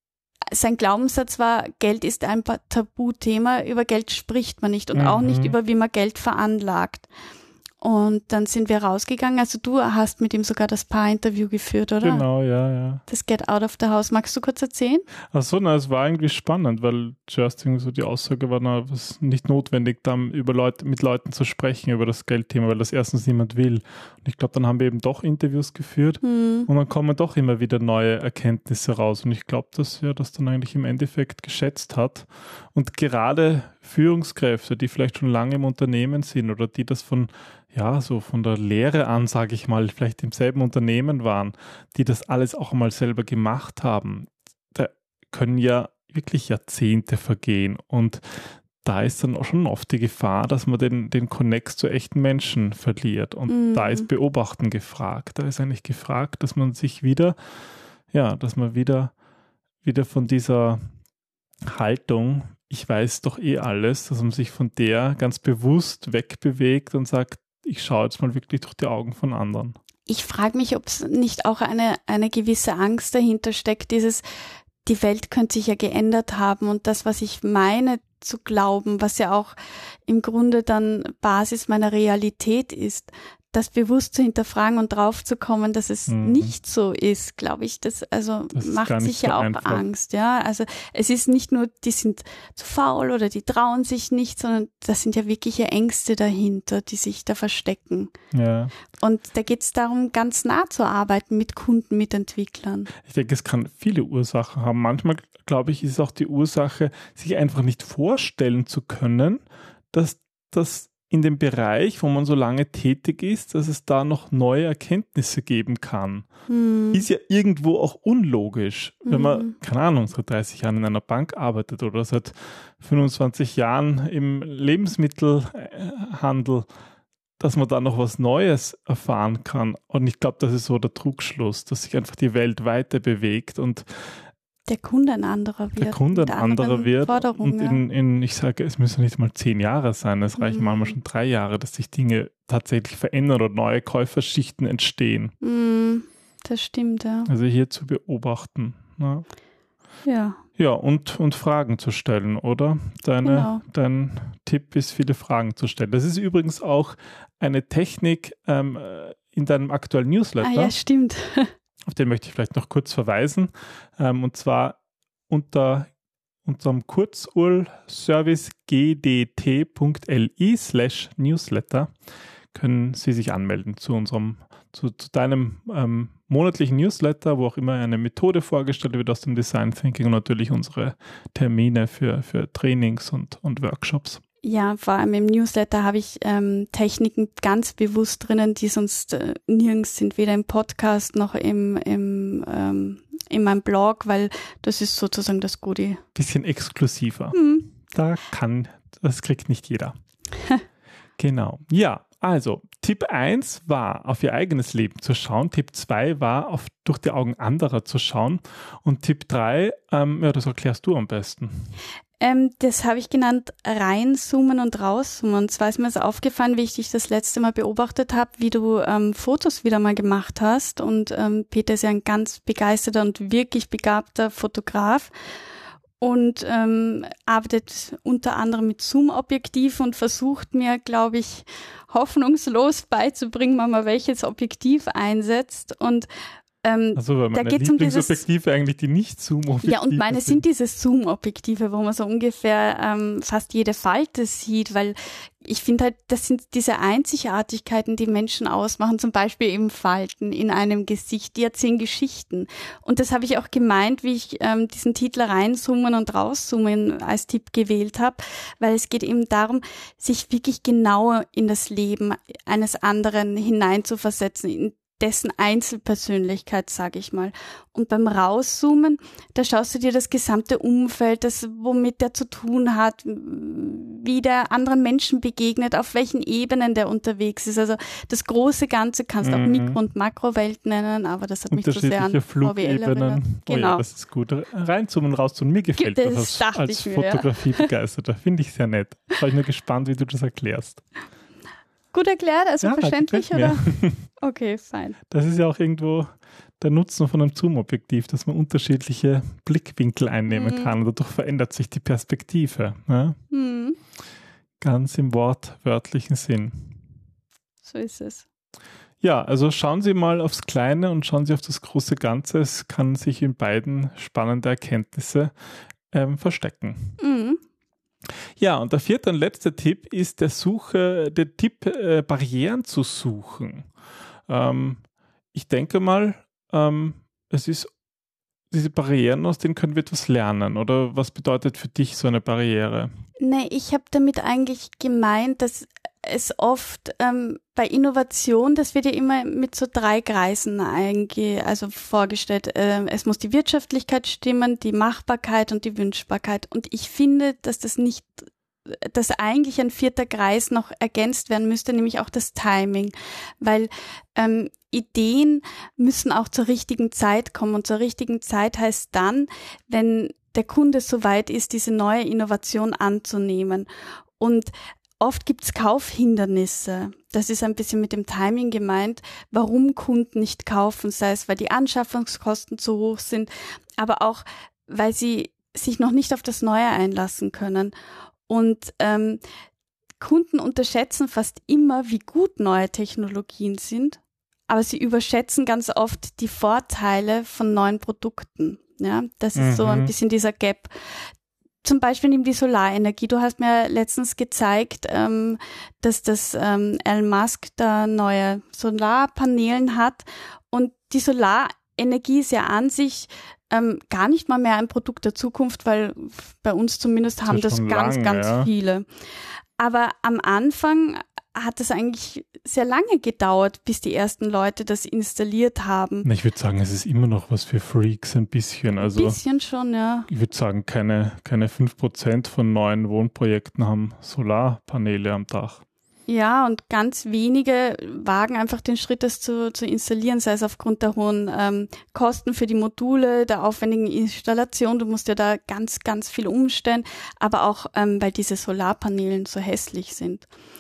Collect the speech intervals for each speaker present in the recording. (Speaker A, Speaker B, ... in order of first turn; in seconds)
Speaker A: 0.5-7.1, 7.8-12.3, 13.1-15.1, 26.2-26.7, 53.5-54.1, 70.1-74.2, 74.8-79.6, 80.1-98.1, 99.0-102.9, 116.5-117.1, 119.1-119.5, 134.7-137.8, 140.4-140.9, 145.4-147.3, 150.1-150.4, 153.2-153.6, 160.4-161.5, 184.4-196.0, 197.3-197.7, 212.2-225.1, 226.0-236.1, 236.6-238.2, 239.6-283.8, 285.8-287.7, 291.9-293.7, 294.2-295.0, 300.3-300.8, 303.3-303.8, 307.6-308.2, 317.0-317.4, 333.2-363.7, 364.2-377.7, 378.3-379.2, 380.0-391.0, 391.6-408.9, 409.6-416.1, 418.8-420.1, 426.1-440.3
Speaker B: 4.9-5.6, 12.0-13.0, 15.3-57.4, 58.1-59.1, 59.8-60.8, 61.7-69.8, 86.1-86.5, 88.5-89.8, 98.3-98.7, 103.0-109.4, 109.9-116.3, 116.9-126.7, 127.4-133.9, 135.8-145.3, 147.3-149.2, 150.6-160.7, 161.9-164.8, 165.3-165.9, 166.4-171.9, 172.6-184.2, 196.2-197.4, 197.9-199.9, 201.2-211.7, 237.0-240.4, 279.2-279.8, 281.5-290.8, 292.6-294.1, 295.1-296.1, 296.6-303.2, 304.6-306.5, 309.0-315.3, 315.9-316.9, 318.4-323.7, 324.3-324.8, 325.3-327.7, 328.5-332.9, 389.4-389.9, 407.2-408.5, 416.0-419.2, 420.1-425.6